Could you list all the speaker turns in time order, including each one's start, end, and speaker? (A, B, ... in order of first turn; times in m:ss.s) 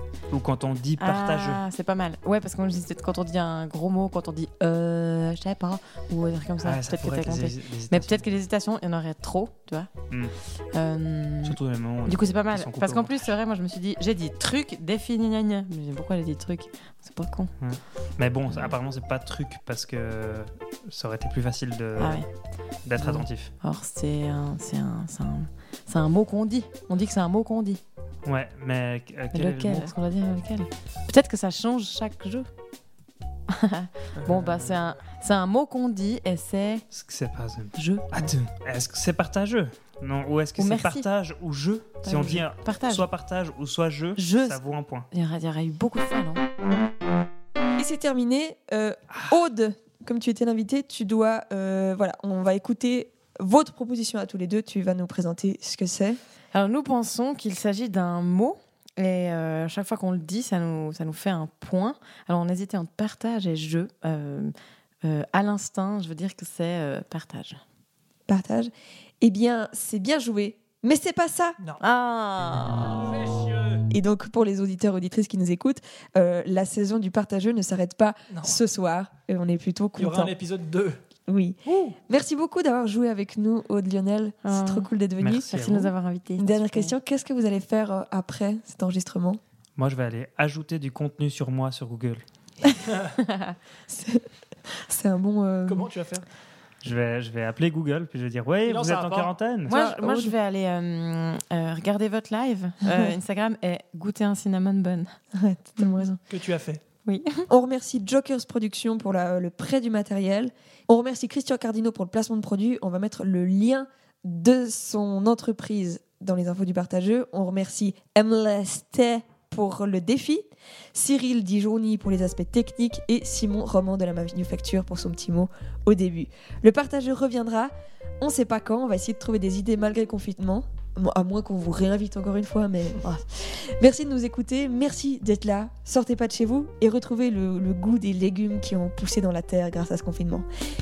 0:00.3-0:01.6 A
0:01.0-0:09.9 B
0:06.6-0:08.3 A
0:10.7-0:17.5 B
0:11.4-0:13.3 A
0:17.6-0:22.2 A
0:22.0-0:22.3 B
0:22.8-0:23.5 A
0:23.0-0:27.8 B
0:28.2-0:29.9 A
0:29.3-0:32.5 B
0:33.5-0:36.8 B
0:34.2-0:34.7 A
0:36.9-0:45.1 A
0:37.8-0:38.3 B
0:40.6-0:41.1 B
0:42.0-0:43.0 B
0:44.2-0:44.6 B
0:45.1-0:46.4 B
0:47.8-0:56.2 C
0:49.1-0:49.4 A
0:56.5-1:07.6 B
1:08.3-1:11.6 C
1:11.8-1:13.2 B
1:13.1-1:13.8 D
1:13.9-1:20.3 C
1:18.3-1:18.6 D
1:20.0-1:21.0 D
1:21.3-1:25.5 C
1:21.7-1:22.0 D
1:24.4-1:24.9 B
1:25.2-1:25.9 A
1:25.5-1:27.0 B
1:26.4-1:29.4 C
1:29.8-1:32.2 A
1:32.9-1:33.2 D
1:33.2-1:33.6 B
1:33.9-1:35.9 C
1:35.7-1:36.3 D
1:36.8-1:39.7 A
1:38.7-1:39.3 D
1:39.7-1:40.4 C
1:39.7-1:45.2 B
1:42.8-1:43.1 C
1:45.3-1:46.2 C
1:46.3-1:46.8 D
1:47.0-1:47.5 B
1:47.5-2:20.5 C